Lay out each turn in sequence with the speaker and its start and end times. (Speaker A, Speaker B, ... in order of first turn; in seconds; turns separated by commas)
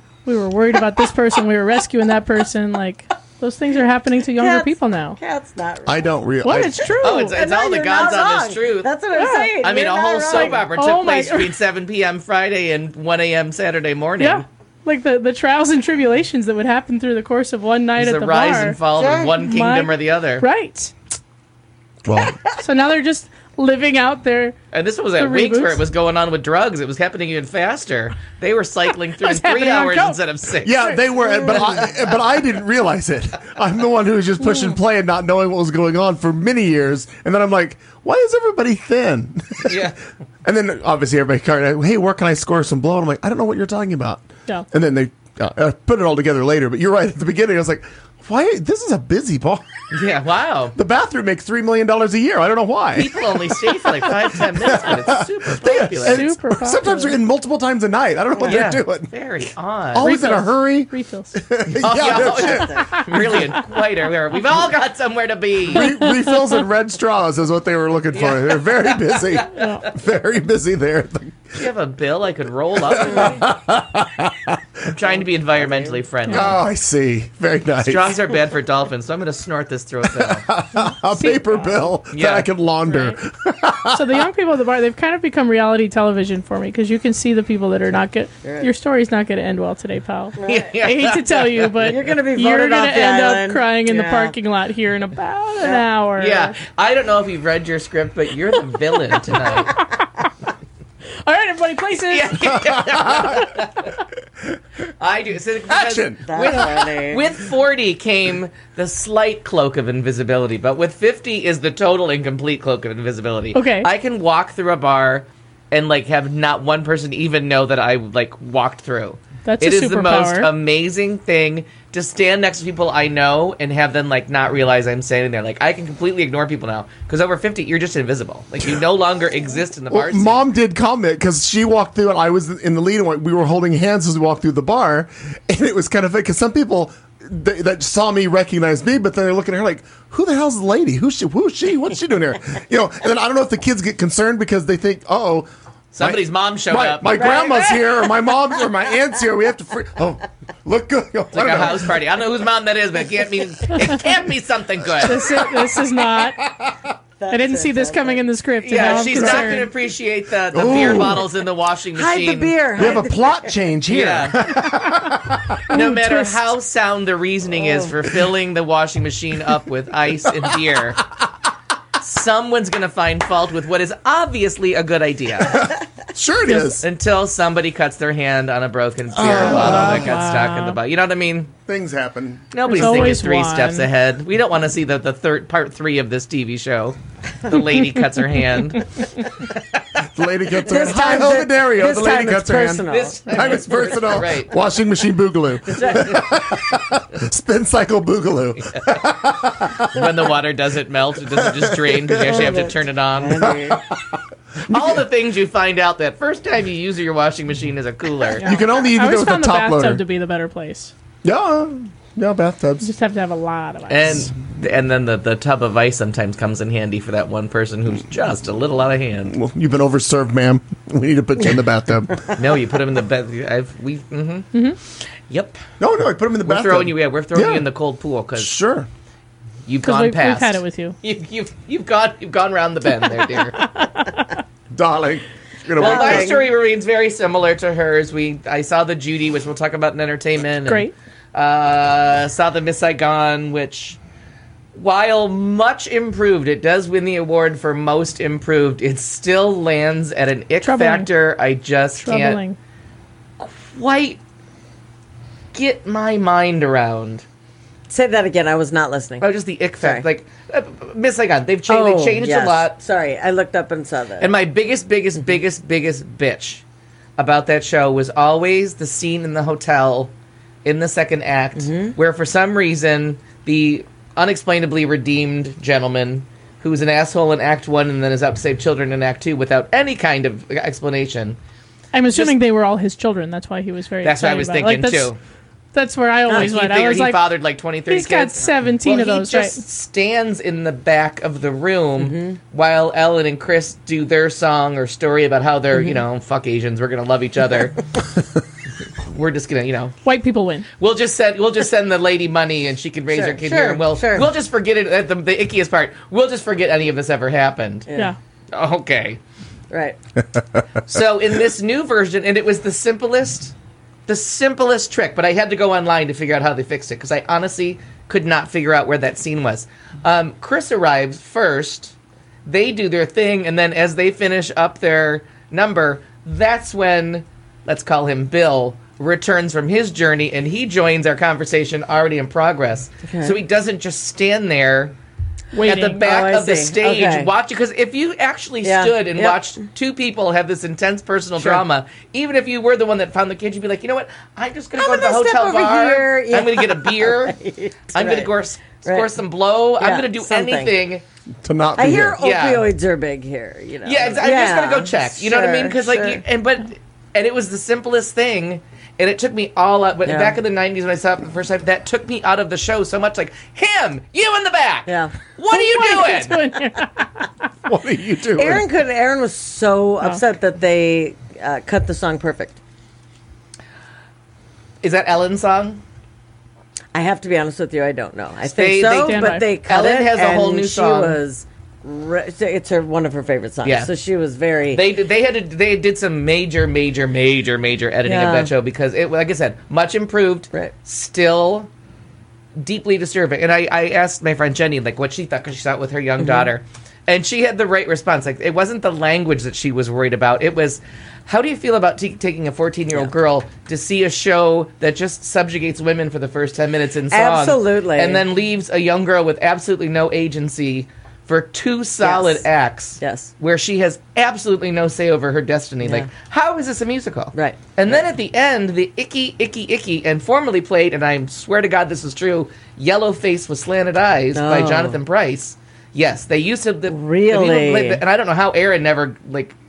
Speaker A: 0.2-5.2, Speaker B: 4.4-6.1, Speaker C: 5.8-7.0, Speaker A: 6.4-7.3, Speaker D: 7.0-8.9, Speaker B: 7.3-10.6, Speaker A: 9.1-9.5, Speaker D: 9.6-14.4, Speaker A: 10.3-11.5, Speaker A: 14.2-18.8, Speaker D: 18.0-20.4, Speaker B: 18.9-19.3, Speaker A: 19.4-20.9, Speaker C: 22.0-22.4, Speaker A: 22.6-24.6, Speaker D: 24.7-30.9, Speaker A: 25.2-25.8, Speaker A: 29.2-30.2, Speaker C: 30.6-39.9, Speaker A: 30.8-31.8, Speaker A: 34.4-34.7, Speaker D: 39.6-40.0, Speaker C: 40.4-49.6, Speaker D: 49.9-50.7, Speaker C: 50.7-59.1, Speaker D: 52.9-56.3, Speaker A: 55.9-57.1, Speaker D: 58.4-60.1, Speaker C: 59.9-63.4, Speaker A: 60.0-61.4, Speaker D: 61.8-65.9, Speaker B: 62.0-62.9, Speaker A: 63.0-63.4, Speaker C: 65.7-71.5, Speaker A: 65.8-66.5, Speaker D: 68.1-69.5, Speaker A: 69.5-69.8, Speaker D: 71.5-73.5, Speaker C: 72.9-74.6, Speaker D: 74.8-76.6, Speaker B: 75.5-76.0, Speaker C: 76.3-78.3, Speaker D: 77.8-80.5, Speaker C: 80.1-84.2, Speaker A: 81.1-81.9, Speaker D: 82.1-82.5, Speaker A: 82.9-83.2, Speaker A: 83.9-96.6, Speaker B: 88.4-88.7, Speaker B: 90.4-90.7, Speaker D: 90.4-92.0, Speaker B: 91.8-94.3, Speaker D: 96.2-99.8, Speaker A: 99.6-100.1, Speaker A: 101.2-102.7, Speaker D: 102.1-103.9, Speaker C: 102.6-103.5, Speaker D: 105.0-130.4, Speaker C: 105.7-106.2, Speaker B: 106.3-107.2, Speaker A: 113.5-113.9, Speaker A: 119.4-120.5, Speaker C: 129.9-152.0, Speaker D: 145.9-147.4, Speaker D: 151.3-155.4, Speaker A: 155.0-156.4, Speaker C: 155.1-156.8, Speaker B: 157.2-158.3, Speaker A: 157.3-159.7, Speaker D: 158.6-162.9, Speaker C: 159.1-159.7, Speaker C: 160.5-161.3, Speaker B: 161.9-163.5, Speaker C: 162.8-165.7, Speaker D: 163.9-164.6, Speaker D: 165.7-171.0, Speaker A: 165.7-166.4, Speaker B: 167.6-167.9, Speaker D: 172.0-175.7, Speaker C: 175.5-176.8, Speaker D: 176.8-181.5, Speaker C: 179.1-180.2, Speaker A: 179.2-180.8, Speaker C: 181.7-183.2, Speaker D: 182.5-189.4, Speaker A: 182.7-183.9, Speaker C: 190.1-200.2, Speaker B: 190.6-193.2, Speaker D: 192.9-194.5, Speaker B: 195.7-196.2, Speaker D: 199.9-203.6, Speaker C: 201.3-202.5, Speaker B: 202.2-203.8, Speaker C: 203.4-205.0, Speaker D: 204.7-208.5, Speaker A: 208.4-210.9, Speaker C: 208.4-210.0, Speaker C: 211.2-212.9, Speaker A: 212.8-214.3, Speaker D: 213.9-219.3, Speaker C: 219.3-222.3, Speaker D: 222.3-224.5, Speaker D: 225.3-225.6, Speaker C: 225.8-227.7, Speaker D: 226.4-228.6, Speaker C: 228.3-228.9, Speaker D: 229.7-233.6, Speaker A: 229.8-230.9, Speaker A: 233.6-234.2, Speaker C: 234.7-236.4, Speaker D: 235.8-244.0, Speaker B: 235.8-236.4, Speaker A: 240.7-240.9, Speaker D: 244.7-252.4, Speaker A: 250.6-251.1, Speaker A: 252.0-252.6, Speaker D: 253.4-254.2, Speaker D: 255.5-257.2, Speaker B: 257.9-259.3, Speaker D: 259.2-262.7, Speaker B: 259.8-260.1, Speaker B: 261.7-264.3, Speaker D: 264.2-266.6, Speaker D: 267.2-270.1, Speaker D: 270.6-281.4, Speaker B: 271.6-271.9, Speaker A: 281.9-285.1, Speaker D: 284.0-285.2, Speaker A: 285.7-287.3, Speaker D: 286.3-297.8, Speaker A: 287.9-289.6, Speaker B: 292.0-292.4, Speaker D: 299.1-299.9, Speaker A: 300.0-300.7, Speaker D: 300.8-307.9, Speaker B: 303.1-304.3, Speaker B: 307.9-308.1, Speaker D: 308.5-309.2, Speaker B: 309.7-310.0, Speaker D: 310.9-313.5, Speaker D: 314.1-321.9, Speaker D: 322.4-334.9, Speaker B: 333.0-333.4, Speaker A: 335.5-336.0, Speaker D: 335.6-347.4, Speaker B: 336.0-337.3, Speaker B: 338.6-339.5, Speaker B: 344.8-348.3, Speaker D: 347.9-351.0, Speaker B: 348.8-349.1, Speaker B: 349.8-350.7, Speaker C: 351.4-352.2, Speaker B: 351.8-356.2, Speaker D: 352.2-352.7, Speaker D: 353.8-366.5, Speaker B: 360.1-360.4, Speaker B: 364.9-365.1, Speaker A: 365.5-367.1, Speaker C: 367.6-368.6, Speaker B: 368.4-372.6, Speaker D: 374.8-375.8, Speaker B: 376.9-384.8, Speaker D: 378.5-381.2, Speaker A: 378.9-379.4, Speaker D: 383.6-383.9, Speaker D: 384.7-391.7, Speaker B: 388.1-388.5, Speaker D: 392.6-429.6, Speaker B: 396.2-396.5, Speaker B: 407.1-408.2, Speaker B: 412.0-412.4, Speaker B: 413.0-413.3, Speaker B: 415.8-416.1, Speaker B: 417.3-418.0, Speaker B: 424.3-425.0, Speaker B: 426.9-428.0